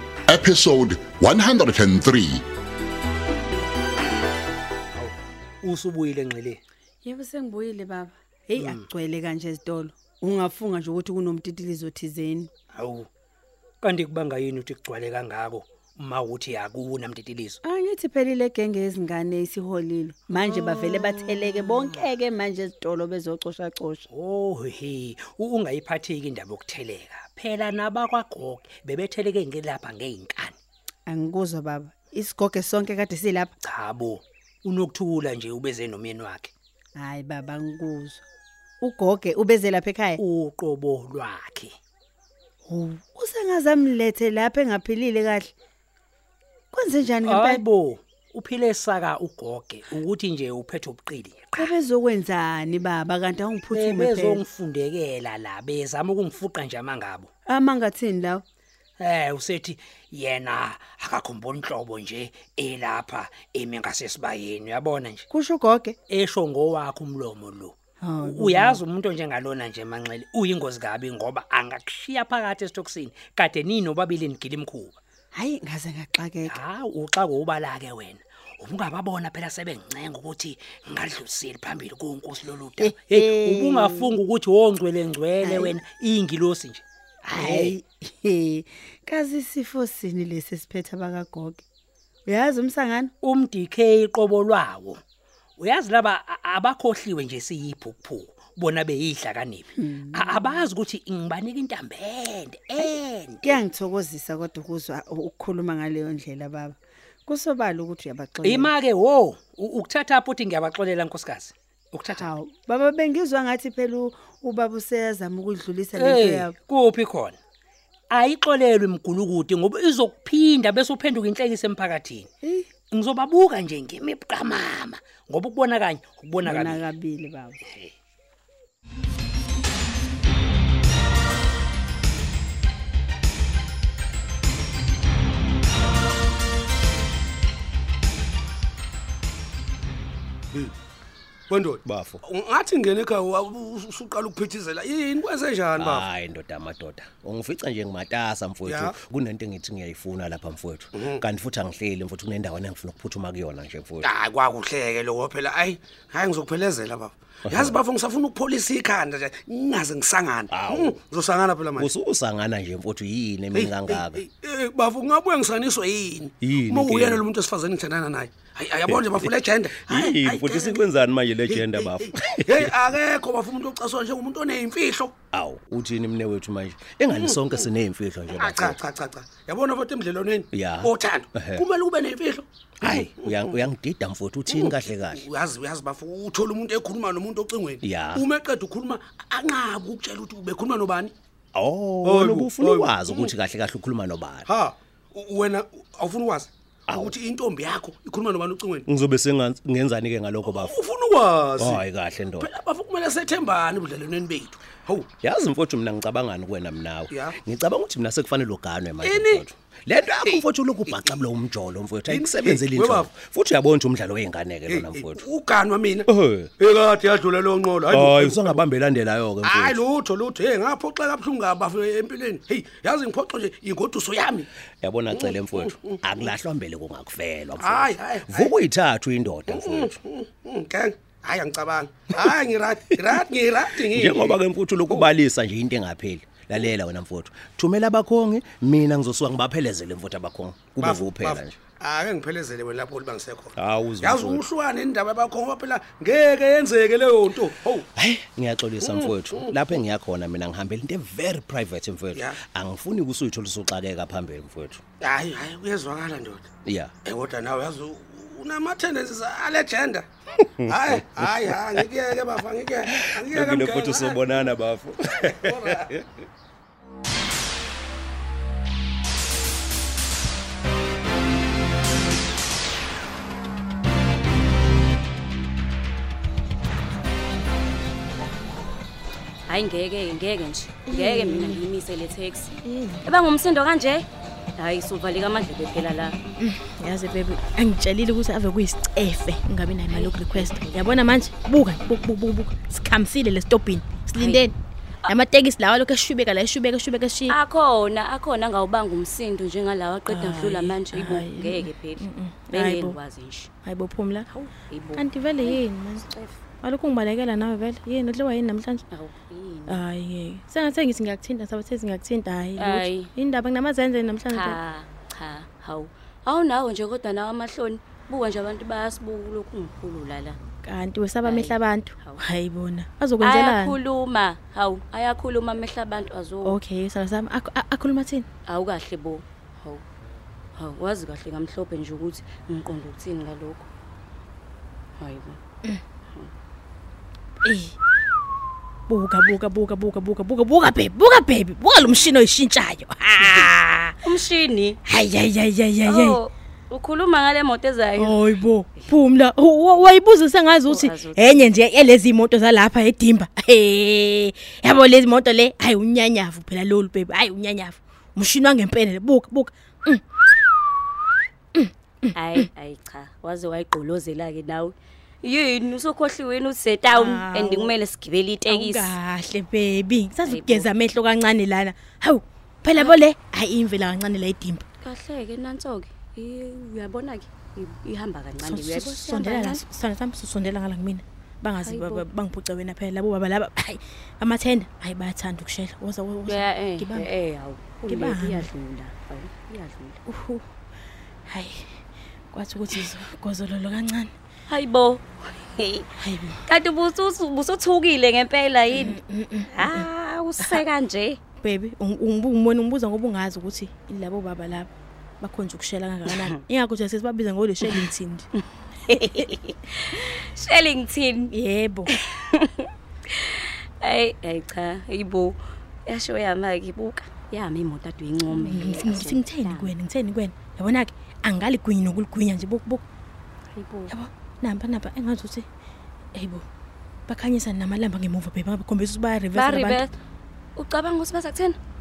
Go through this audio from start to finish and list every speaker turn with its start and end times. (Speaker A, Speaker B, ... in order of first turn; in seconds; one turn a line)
Speaker A: 0.3-2.4
Speaker B: 4.9-6.6
Speaker C: 7.0-12.5
Speaker B: 8.6-8.8
Speaker B: 12.7-13.1
Speaker B: 13.8-17.6
Speaker C: 17.6-24.1
Speaker B: 20.3-21.9
Speaker B: 24.1-30.6
Speaker C: 31.1-33.5
Speaker B: 33.6-36.5
Speaker C: 37.0-38.2
Speaker C: 38.8-40.2
Speaker B: 40.2-41.7
Speaker C: 42.6-45.5
Speaker C: 46.7-47.6
Speaker B: 47.2-51.7
Speaker C: 51.6-54.4
Speaker B: 53.7-57.3
Speaker C: 57.5-58.4
Speaker B: 59.0-65.2
Speaker C: 65.3-66.0
Speaker B: 66.1-75.0
Speaker C: 68.0-68.8
Speaker C: 75.3-76.6
Speaker B: 76.5-87.7
Speaker C: 82.8-84.2
Speaker C: 85.4-85.8
Speaker C: 87.2-91.6
Speaker C: 92.3-93.1
Speaker B: 93.2-95.0
Speaker B: 95.6-103.6
Speaker C: 99.7-100.4
Speaker C: 103.4-106.8
Speaker C: 107.3-108.7
Speaker B: 108.4-112.3
Speaker C: 112.1-116.5
Speaker B: 115.9-117.4
Speaker B: 118.1-122.3
Speaker B: 122.9-126.8
Speaker C: 126.4-127.6
Speaker D: 141.5-146.1
Speaker E: 141.8-142.2
Speaker E: 145.8-154.1
Speaker D: 148.7-148.9
Speaker D: 150.9-151.2
Speaker D: 154.0-161.9
Speaker E: 157.5-157.8
Speaker E: 160.5-160.9
Speaker E: 161.8-164.2
Speaker D: 163.5-170.9
Speaker E: 166.4-167.2
Speaker E: 168.9-169.3
Speaker E: 169.8-172.7
Speaker D: 171.5-175.1
Speaker E: 175.3-178.8
Speaker D: 177.1-177.7
Speaker D: 178.3-183.5
Speaker E: 180.5-181.6
Speaker E: 182.8-185.2
Speaker D: 184.5-191.1
Speaker E: 187.8-188.2
Speaker E: 191.5-194.5
Speaker D: 192.0-193.3
Speaker D: 194.5-198.8
Speaker E: 196.9-197.1
Speaker E: 198.9-200.8
Speaker D: 200.4-201.8
Speaker E: 201.6-202.5
Speaker D: 202.4-205.1
Speaker E: 205.2-215.2
Speaker D: 207.1-207.3
Speaker D: 209.0-209.4
Speaker D: 212.1-213.1
Speaker D: 214.7-216.1
Speaker E: 216.1-216.5
Speaker D: 216.6-218.6
Speaker E: 217.9-219.8
Speaker D: 219.4-224.5
Speaker E: 224.8-230.0
Speaker D: 225.1-226.0
Speaker D: 227.6-228.5
Speaker D: 229.5-234.4
Speaker E: 233.9-241.6
Speaker D: 240.8-247.8
Speaker E: 243.6-244.4
Speaker E: 247.9-254.8
Speaker D: 248.8-249.5
Speaker D: 255.0-256.5
Speaker E: 256.6-256.9
Speaker D: 257.0-260.1
Speaker E: 260.4-261.8
Speaker D: 260.7-264.4
Speaker E: 262.9-266.1
Speaker D: 265.4-265.9
Speaker F: 279.5-282.5
Speaker G: 280.9-281.6
Speaker G: 282.6-283.1
Speaker F: 283.0-286.2
Speaker G: 286.4-294.5
Speaker F: 289.9-290.7
Speaker F: 294.1-294.4
Speaker G: 295.1-297.4
Speaker F: 297.3-303.5
Speaker G: 300.1-303.0
Speaker G: 303.6-304.3
Speaker F: 304.3-306.3
Speaker G: 304.9-306.1
Speaker G: 306.6-308.8
Speaker F: 308.9-309.8
Speaker G: 309.7-314.6
Speaker F: 312.6-313.1
Speaker F: 314.3-320.4
Speaker G: 320.6-323.8
Speaker F: 321.2-322.2
Speaker F: 323.2-326.6
Speaker G: 326.4-328.2
Speaker F: 328.5-329.8
Speaker F: 330.6-333.7
Speaker F: 335.0-335.4
Speaker G: 337.4-337.7
Speaker G: 338.9-343.9
Speaker F: 341.8-342.1
Speaker F: 343.2-344.8
Speaker G: 344.8-346.2
Speaker F: 345.8-348.9
Speaker G: 348.0-360.0
Speaker F: 350.7-351.6
Speaker F: 362.1-368.9
Speaker G: 366.9-367.7
Speaker G: 368.5-374.6
Speaker F: 370.2-370.7
Speaker F: 374.8-379.6
Speaker G: 378.4-387.1
Speaker F: 381.6-382.0
Speaker F: 386.2-390.0
Speaker G: 387.8-388.5
Speaker G: 390.1-390.4
Speaker G: 391.2-394.1
Speaker F: 394.5-395.9
Speaker G: 396.0-396.4
Speaker F: 396.4-399.0
Speaker G: 398.7-399.9
Speaker F: 399.5-401.2
Speaker G: 401.4-404.7
Speaker G: 405.2-408.3
Speaker F: 408.9-411.3
Speaker G: 408.9-409.2
Speaker G: 411.3-411.9
Speaker F: 411.9-412.6
Speaker F: 413.8-419.7
Speaker G: 418.3-422.8
Speaker F: 423.5-423.9
Speaker G: 423.9-425.4
Speaker G: 426.1-426.4
Speaker G: 427.1-429.8
Speaker F: 429.3-429.9
Speaker F: 430.6-431.6